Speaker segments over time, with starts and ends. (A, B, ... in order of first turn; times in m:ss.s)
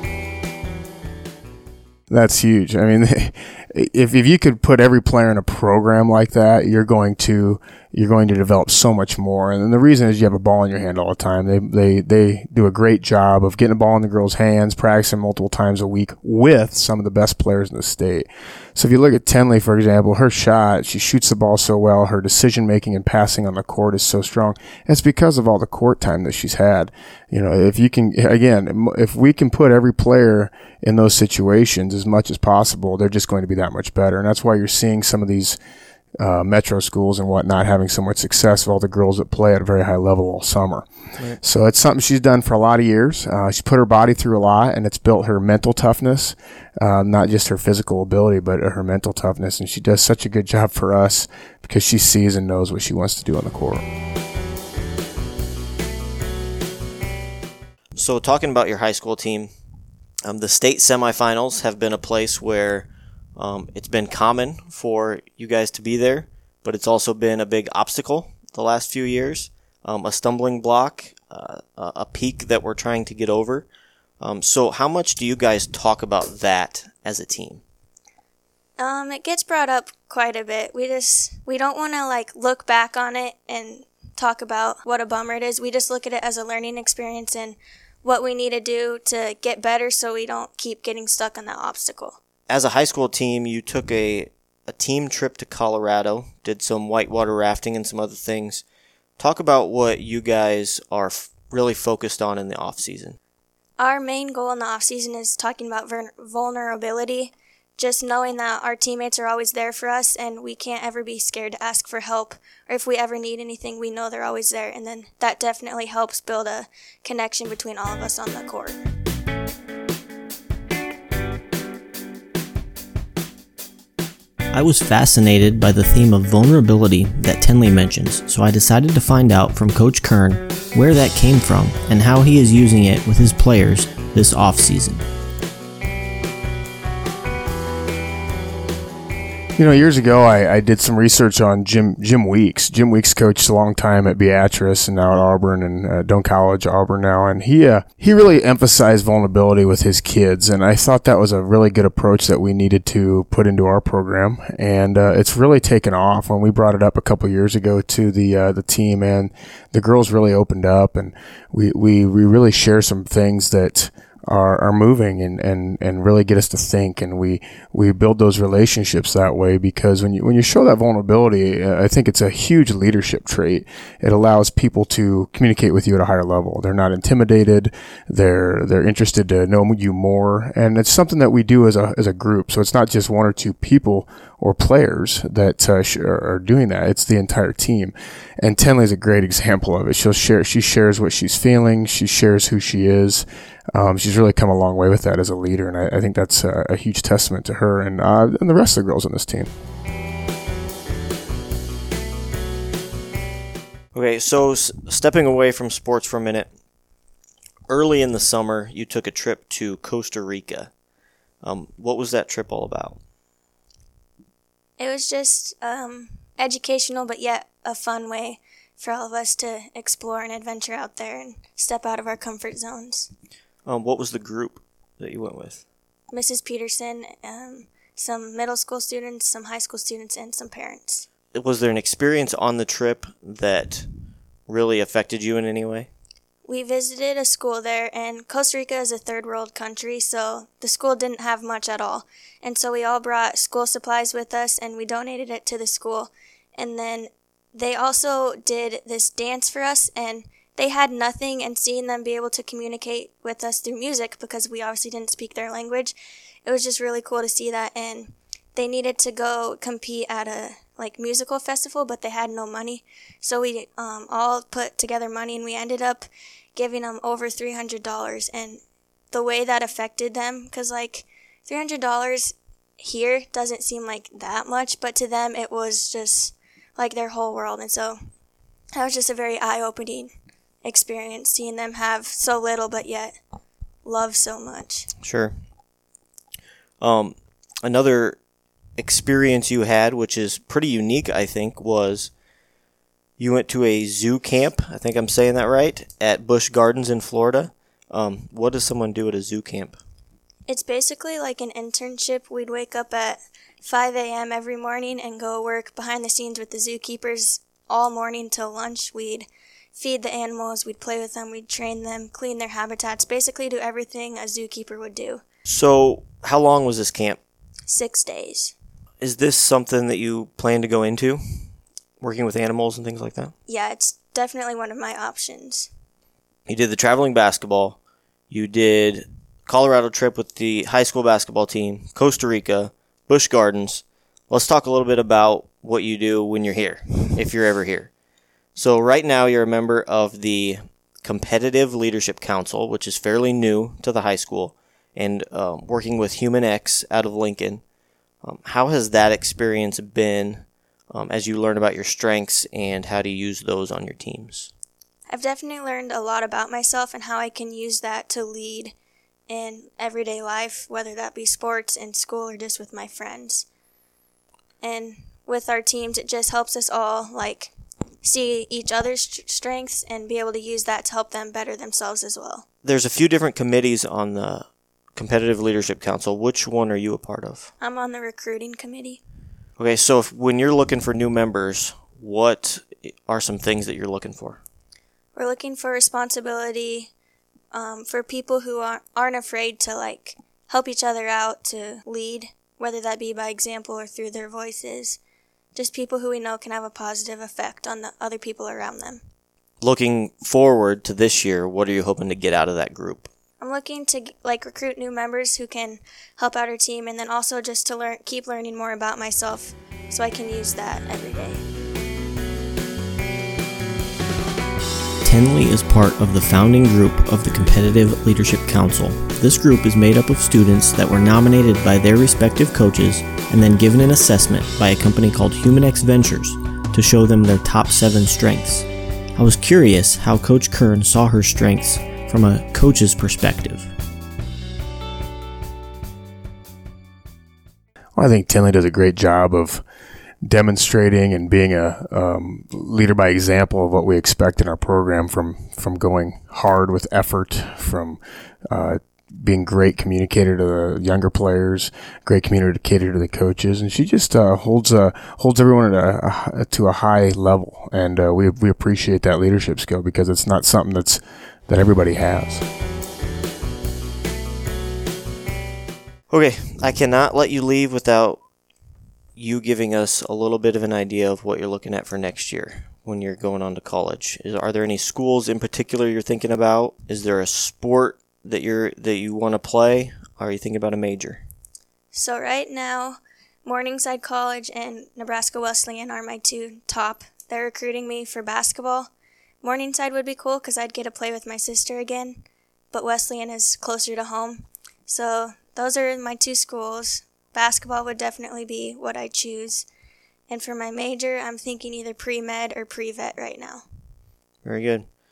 0:02.1-0:35.6 A
0:36.2-0:40.9 A
0:41.4-0:53.8 A
0:57.9-0:59.5 B
1:00.2-1:13.7 B
1:14.2-1:17.6 B
1:18.8-1:32.2 C
1:32.5-1:38.6 B
1:39.2-1:43.2 B
1:43.8-1:58.9 C
2:04.5-2:15.0 B
2:19.6-3:19.5 A
3:23.9-3:26.5 B
3:27.7-3:30.7 B
3:31.4-3:33.0 B
3:34.8-3:43.1 C
3:43.6-3:45.6 B
3:46.1-3:51.0 C
3:51.3-3:53.8 B
3:54.5-3:55.9 B
3:56.4-4:28.6 C
4:29.1-4:38.0 C
4:38.7-4:40.1 C
4:40.6-4:43.2 C
4:43.8-4:44.9 C
4:45.0-4:45.3 B
4:46.8-4:48.2 B
4:48.8-4:52.1 B
4:53.2-4:59.8 B
5:00.5-5:15.2 C
5:15.4-5:17.2 B
5:17.7-5:18.5 C
5:19.0-5:21.2 B
5:22.0-5:23.3 B
5:23.5-5:25.7 C
5:26.5-5:27.8 B
5:28.3-5:37.9 B
5:38.5-5:47.6 B
5:48.2-5:54.5 B
5:55.1-5:58.7 C
5:59.3-6:03.4 C
6:04.6-6:12.4 C
6:12.6-6:17.5 B
6:17.6-6:19.0 C
6:19.6-6:24.4 B
6:25.1-6:26.9 C
6:27.5-6:35.0 C
6:35.5-6:39.0 C
6:39.6-6:43.1 B
6:43.4-6:51.4 C
6:55.0-7:13.7 B
7:18.0-7:19.6 A
7:20.2-7:42.4 A
7:46.1-7:48.2 B
7:49.1-8:01.2 B
8:01.9-8:08.9 C
8:09.4-8:19.7 C
8:20.3-8:23.6 C
8:24.4-8:24.8 B